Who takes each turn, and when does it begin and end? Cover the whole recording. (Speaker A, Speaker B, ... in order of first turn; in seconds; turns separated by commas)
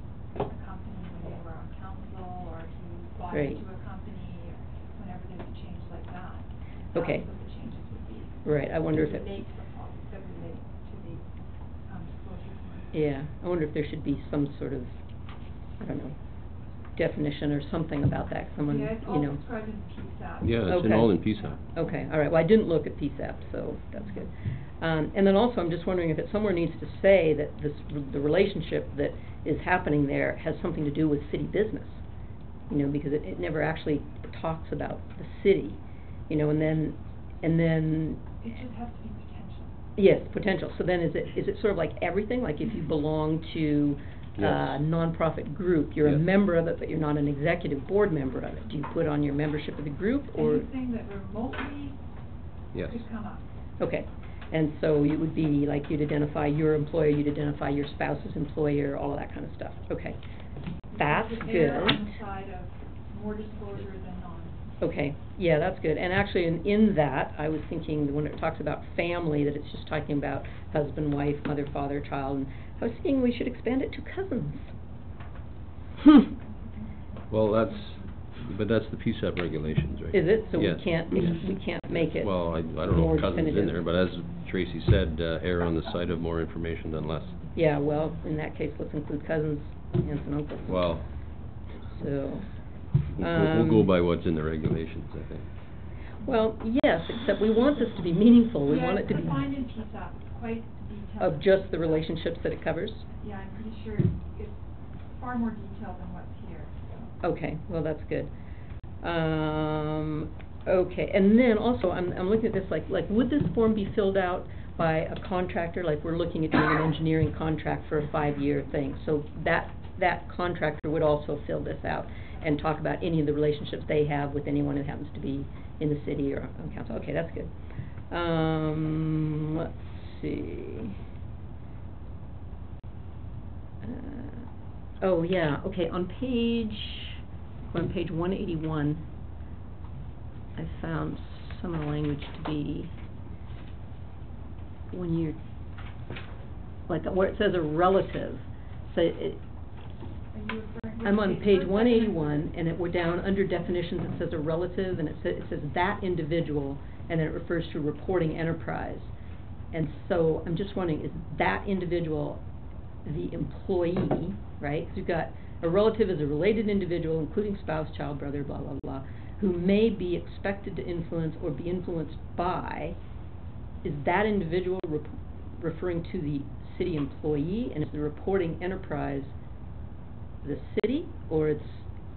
Speaker A: 0.4-11.3, Speaker B: 3.3-3.6, Speaker B: 6.9-7.2, Speaker B: 8.4-9.3, Speaker A: 11.9-13.1, Speaker B: 12.9-15.0, Speaker B: 15.8-16.1, Speaker B: 16.9-19.4, Speaker A: 18.6-21.6, Speaker C: 20.4-21.6, Speaker B: 20.7-32.0, Speaker B: 32.7-38.4, Speaker A: 38.4-39.8, Speaker B: 40.0-50.7, Speaker C: 44.4-44.8, Speaker A: 50.4-52.0, Speaker C: 52.7-53.0, Speaker A: 52.8-53.5, Speaker B: 53.8-60.2, Speaker A: 60.9-64.6, Speaker B: 61.0-62.1, Speaker B: 64.8-74.8, Speaker C: 77.3-87.5, Speaker B: 80.1-83.8, Speaker B: 87.5-91.0, Speaker C: 90.7-91.1, Speaker B: 91.8-92.6, Speaker C: 93.2-95.5, Speaker B: 93.2-93.9, Speaker B: 96.2-99.5, Speaker A: 98.6-102.0, Speaker B: 101.2-103.1, Speaker A: 103.1-104.6, Speaker A: 105.1-107.1, Speaker B: 107.2-108.3, Speaker B: 109.0-127.5, Speaker B: 128.1-131.0, Speaker B: 133.8-134.5, Speaker B: 135.0-139.1, Speaker B: 140.6-142.9, Speaker B: 144.9-145.4, Speaker B: 146.9-149.4, Speaker A: 150.3-152.5, Speaker B: 151.0-159.1, Speaker B: 159.7-162.4, Speaker B: 163.1-173.0, Speaker B: 173.8-179.3, Speaker B: 180.4-181.9